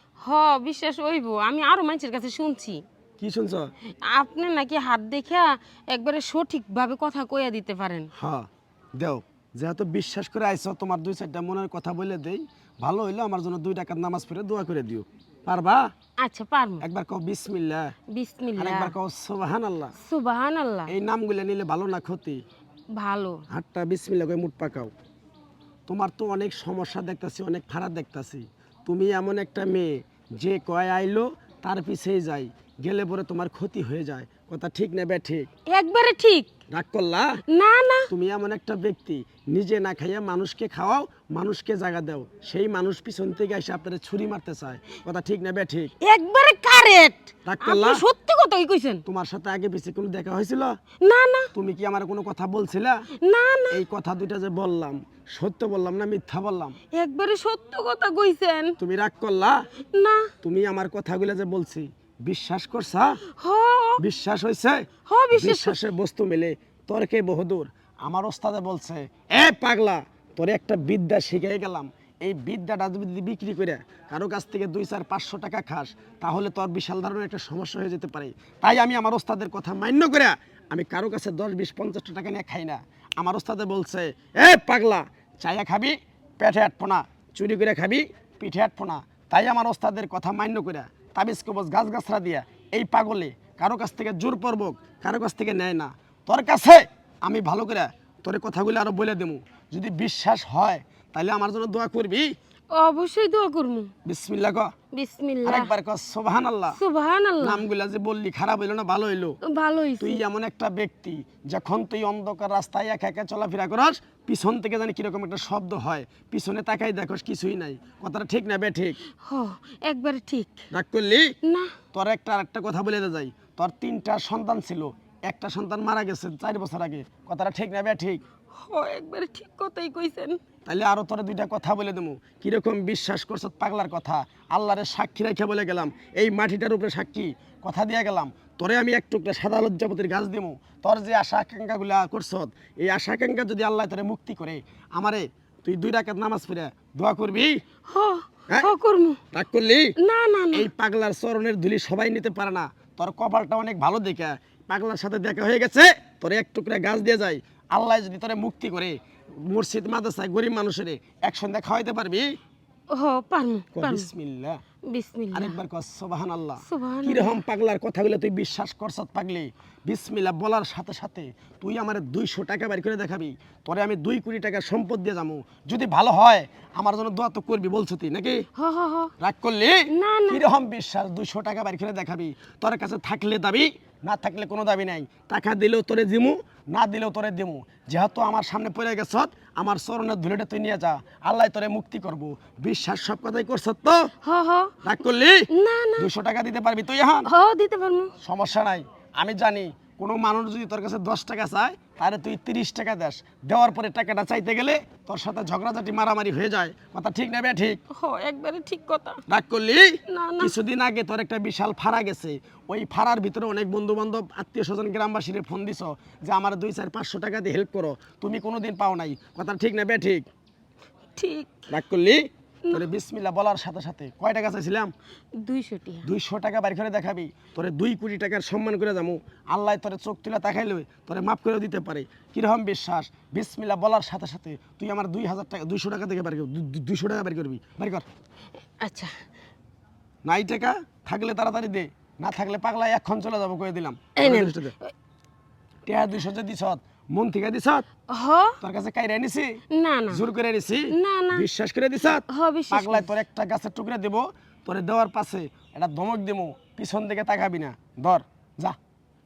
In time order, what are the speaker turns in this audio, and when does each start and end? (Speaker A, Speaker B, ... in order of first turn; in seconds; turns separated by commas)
Speaker A: 0.2-2.8, Speaker B: 3.2-3.7, Speaker A: 4.0-8.1, Speaker B: 8.2-15.9, Speaker A: 16.2-16.8, Speaker B: 16.8-17.9, Speaker A: 18.1-18.9, Speaker B: 18.6-19.9, Speaker A: 20.0-20.9, Speaker B: 20.9-22.4, Speaker A: 22.9-23.4, Speaker B: 23.5-24.9, Speaker B: 25.9-35.5, Speaker A: 35.7-36.5, Speaker B: 36.7-37.4, Speaker A: 37.5-38.1, Speaker B: 38.1-45.9, Speaker A: 46.0-49.0, Speaker B: 47.5-48.0, Speaker B: 49.0-50.7, Speaker A: 51.0-51.5, Speaker B: 51.5-53.1, Speaker A: 53.2-53.8, Speaker B: 53.7-56.8, Speaker A: 56.9-58.7, Speaker B: 58.8-59.6, Speaker A: 59.9-60.3, Speaker B: 60.4-63.2, Speaker A: 63.4-64.0, Speaker B: 64.0-102.3, Speaker A: 65.1-65.8, Speaker A: 102.7-103.9, Speaker B: 104.0-104.7, Speaker A: 104.9-105.7, Speaker B: 105.4-106.8, Speaker A: 106.7-107.6, Speaker B: 107.4-109.4, Speaker A: 109.4-110.2, Speaker B: 110.0-119.0, Speaker A: 119.2-120.7, Speaker B: 120.7-121.3, Speaker A: 121.4-121.7, Speaker B: 121.9-128.2, Speaker A: 128.6-130.4, Speaker B: 130.7-147.6, Speaker A: 147.9-149.2, Speaker B: 149.3-149.9, Speaker A: 150.0-150.7, Speaker B: 150.5-162.2, Speaker A: 162.9-164.1, Speaker B: 163.7-164.6, Speaker A: 164.9-165.6, Speaker B: 165.3-178.4, Speaker A: 166.6-167.4, Speaker A: 178.6-179.1, Speaker B: 179.2-194.1, Speaker A: 179.9-180.4, Speaker A: 194.2-194.8, Speaker B: 194.8-197.3, Speaker A: 195.5-196.1, Speaker A: 197.2-198.1, Speaker B: 198.2-207.8, Speaker A: 207.9-209.2, Speaker B: 209.3-220.2, Speaker A: 210.1-210.5, Speaker A: 221.2-221.6, Speaker B: 221.7-224.9, Speaker A: 225.3-226.1, Speaker B: 226.0-238.1, Speaker A: 238.8-239.2, Speaker B: 240.2-244.7, Speaker A: 244.2-244.9, Speaker B: 245.8-247.8, Speaker A: 248.1-248.6, Speaker B: 248.6-258.8, Speaker A: 249.7-250.2, Speaker A: 250.9-251.4, Speaker A: 252.3-253.1